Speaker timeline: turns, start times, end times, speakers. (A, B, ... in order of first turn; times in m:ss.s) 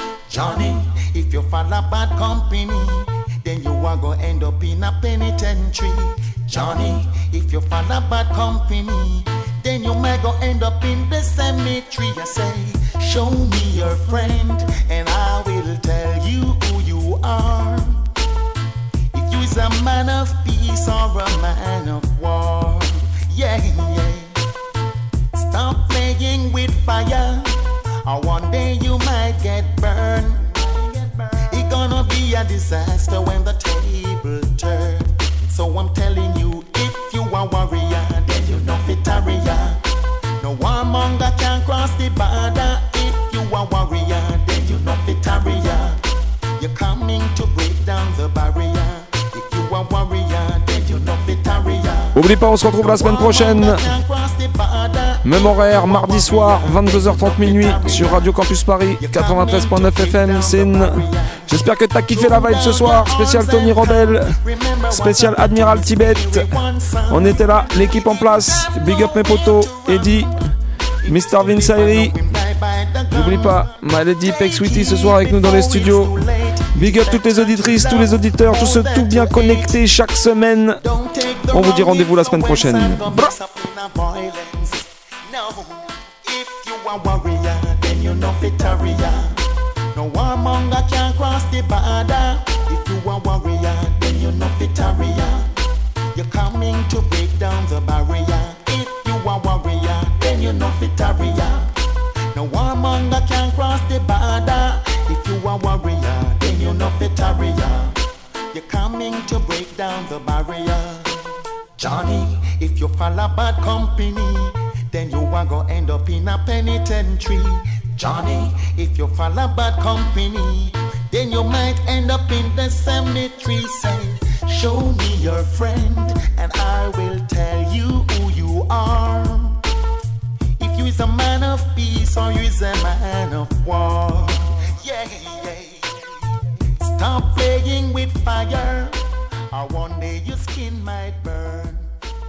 0:00.3-0:18.0 A
0:19.1-0:24.4 A
0:25.3-0:39.8 A
0:40.4-0:46.0 A
0:46.6-0:58.3 A
0:52.1-0:54.0 B
0:55.2-1:04.4 B
0:59.0-1:10.4 A
1:04.9-1:10.3 B
1:11.0-1:19.8 A
1:11.1-1:12.2 B
1:13.1-1:16.2 B
1:16.8-1:20.8 B
1:20.8-1:29.4 A
1:21.5-1:23.3 B
1:29.9-1:35.5 A
1:36.1-1:41.7 A
1:42.3-1:48.0 A
1:48.5-1:51.2 A
1:51.8-2:09.6 A
2:10.6-2:15.9 A
2:16.8-2:19.0 A
2:19.5-2:21.9 A